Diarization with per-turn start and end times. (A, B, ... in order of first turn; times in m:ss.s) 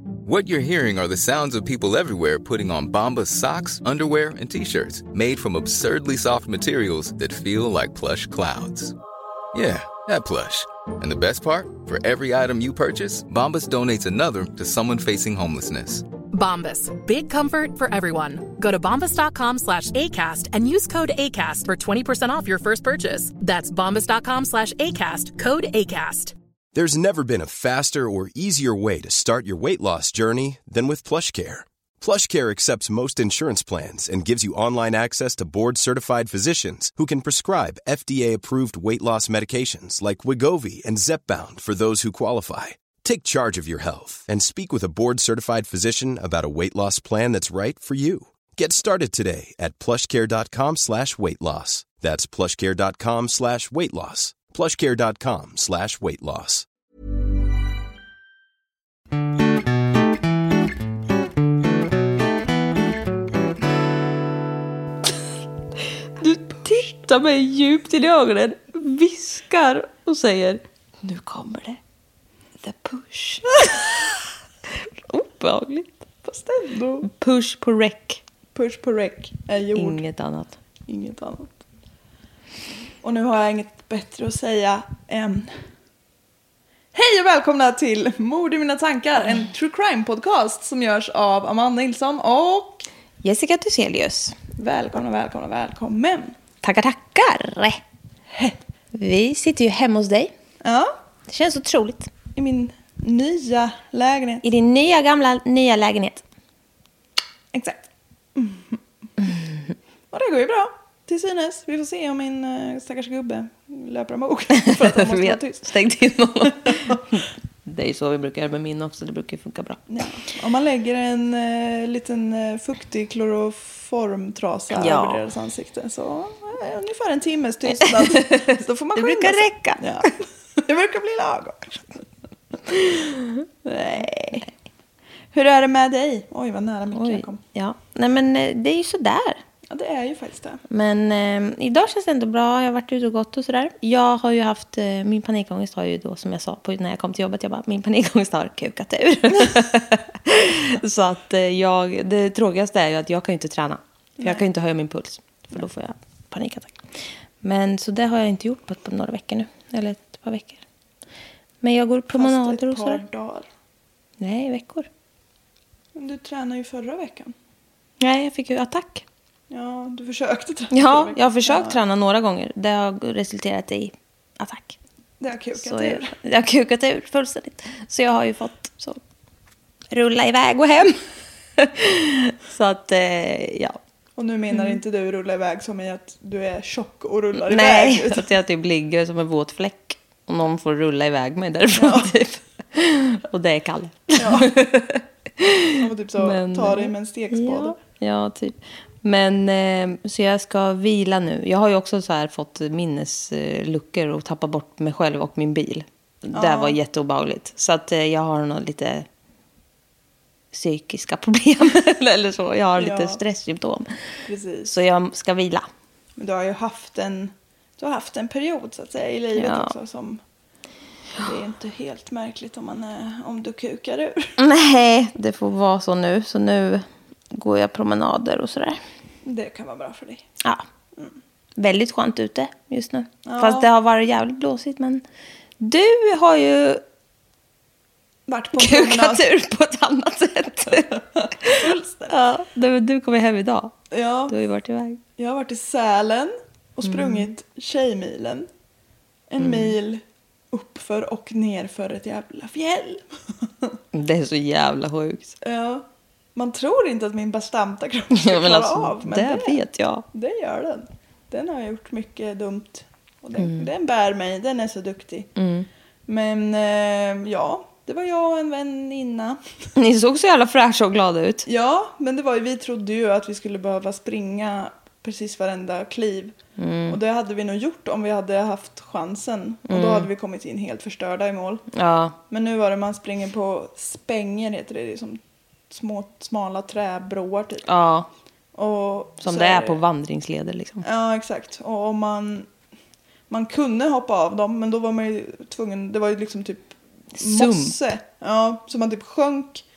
0:00.3-0:09.0 A
0:09.5-0:16.1 A
0:16.3-0:26.3 B
0:26.7-0:56.7 C
1:06.0-1:11.8 D
1:12.6-1:14.1 D
1:14.7-1:16.0 D
1:16.2-1:17.1 E
1:17.0-1:18.2 D
1:18.6-1:20.0 E
1:19.8-1:20.6 D
1:20.9-1:21.6 E
1:23.0-1:25.5 E
1:26.9-1:32.9 E
1:33.2-1:34.4 D
1:34.6-1:36.4 E
1:36.6-1:37.8 D
1:38.3-1:38.6 E
1:38.9-1:40.3 D
1:40.6-1:40.9 E
1:41.3-1:42.1 D
1:42.4-1:44.4 E
1:44.4-1:46.2 D
1:47.5-1:48.8 E
1:50.1-1:55.9 E
1:54.6-1:59.8 D
1:56.4-1:57.0 E
1:59.9-2:12.0 E
2:04.7-2:05.2 D
2:07.7-2:10.1 D
2:12.7-2:13.5 D
2:13.6-2:14.5 E
2:15.3-2:17.4 E
2:16.9-2:19.4 D
2:19.7-2:20.6 E
2:20.7-2:40.6 D
2:34.2-2:34.4 E
2:41.6-2:43.0 D
2:42.1-2:43.5 E
2:44.2-2:44.9 D
2:46.0-2:47.3 E
2:48.0-2:49.0 D
2:49.5-2:51.8 E
2:50.7-2:54.8 D
2:55.2-2:56.2 E
2:55.6-2:59.0 D
2:59.9-3:01.1 D
3:01.6-3:03.8 D
3:04.2-3:08.3 E
3:04.5-3:04.8 D
3:07.3-3:29.1 D
3:11.7-3:12.1 E
3:14.2-3:14.6 E
3:15.8-3:17.8 E
3:26.3-3:26.8 E
3:30.5-3:33.9 D
3:32.8-3:33.2 E
3:34.3-3:34.8 E
3:34.7-3:35.7 D
3:36.2-3:40.2 E
3:39.4-3:39.7 D
3:41.2-3:44.4 E
3:44.4-3:48.8 D
3:49.3-3:50.3 E
3:51.6-3:55.0 D
3:53.2-3:53.7 E
3:55.6-3:56.8 D
3:58.3-3:59.3 E
3:58.6-4:03.8 D
4:01.0-4:02.2 E
4:03.9-4:04.4 E
4:04.3-4:05.0 D
4:05.2-4:08.5 E
4:06.8-4:07.3 D
4:09.3-4:13.8 E
4:09.4-4:09.7 D
4:13.9-4:15.4 D
4:15.4-4:19.6 E
4:18.1-4:20.0 D
4:20.1-4:25.3 E
4:23.4-4:23.7 D
4:25.4-4:25.7 D
4:26.1-4:29.4 E
4:29.8-4:31.5 D
4:31.5-4:36.4 E
4:36.6-4:37.0 D
4:36.9-4:41.6 E
4:39.7-4:40.1 D
4:41.7-4:42.2 D
4:42.3-4:47.7 E
4:47.6-4:48.1 D
4:48.5-4:49.8 E
4:49.2-4:50.8 D
4:50.8-4:52.5 E
4:53.3-4:59.6 E
4:57.2-4:57.9 D